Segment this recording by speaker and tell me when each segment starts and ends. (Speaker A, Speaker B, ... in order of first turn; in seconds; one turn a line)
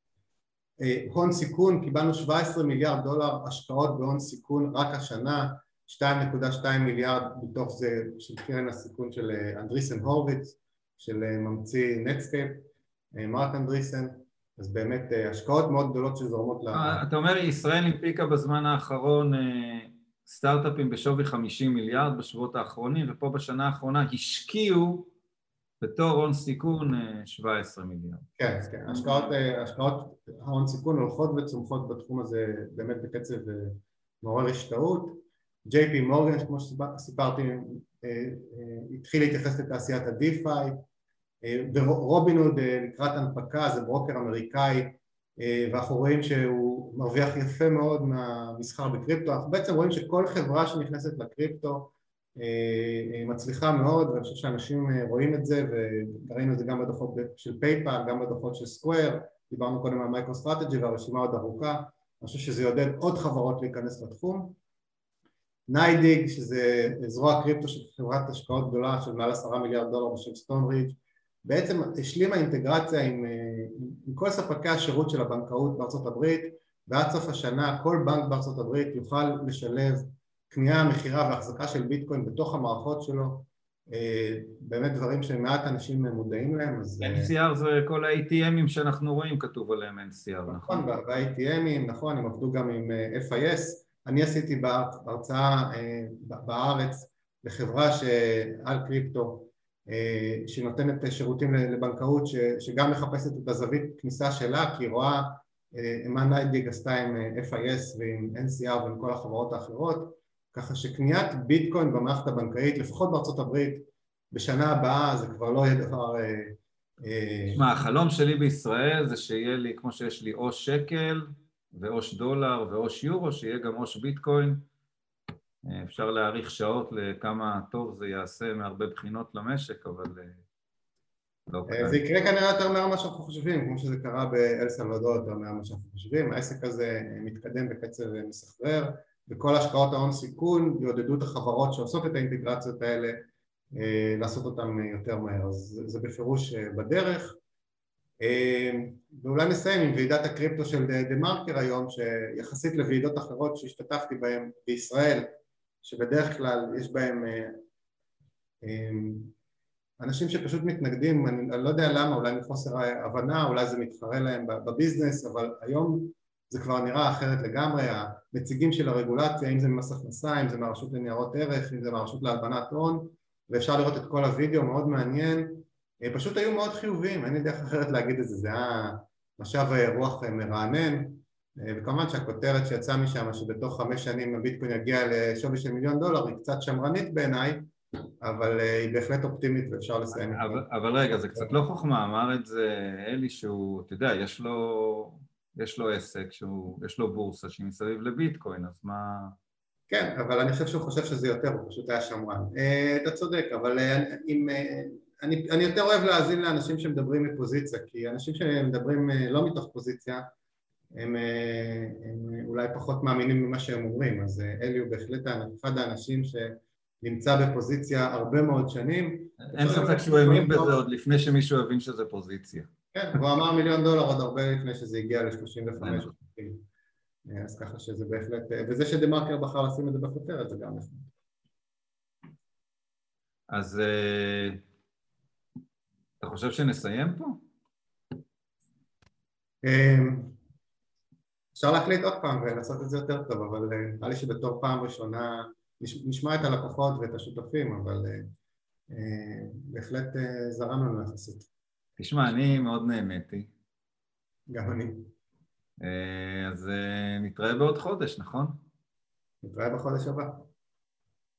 Speaker A: 0.8-17.0
Speaker B: 16.7-25.1
Speaker B: 25.8-28.2
Speaker A: 28.4-40.8
Speaker B: 28.9-29.3
Speaker A: 41.4-64.6
Speaker A: 65.7-87.3
Speaker B: 87.0-90.9
Speaker A: 90.5-117.6
Speaker B: 117.5-124.6
Speaker B: 125.6-130.4
Speaker B: 131.5-132.0
Speaker A: 131.7-147.4
Speaker A: 148.2-155.3
Speaker A: 155.8-157.6
Speaker A: 158.6-159.3
Speaker A: 160.0-187.7
Speaker A: 188.2-190.6
Speaker B: 190.1-199.3
Speaker A: 199.9-210.2
Speaker A: 210.9-220.8
Speaker B: 219.4-223.2
Speaker A: 222.9-226.6
Speaker B: 225.8-226.1
Speaker A: 227.3-231.1
Speaker B: 233.5-234.6
Speaker B: 236.2-237.4
Speaker A: 239.6-240.4
Speaker A: 241.6-248.3
Speaker A: 248.9-251.5
Speaker B: 252.0-253.5
Speaker A: 254.5-255.1
Speaker B: 255.8-258.6
Speaker A: 259.4-260.5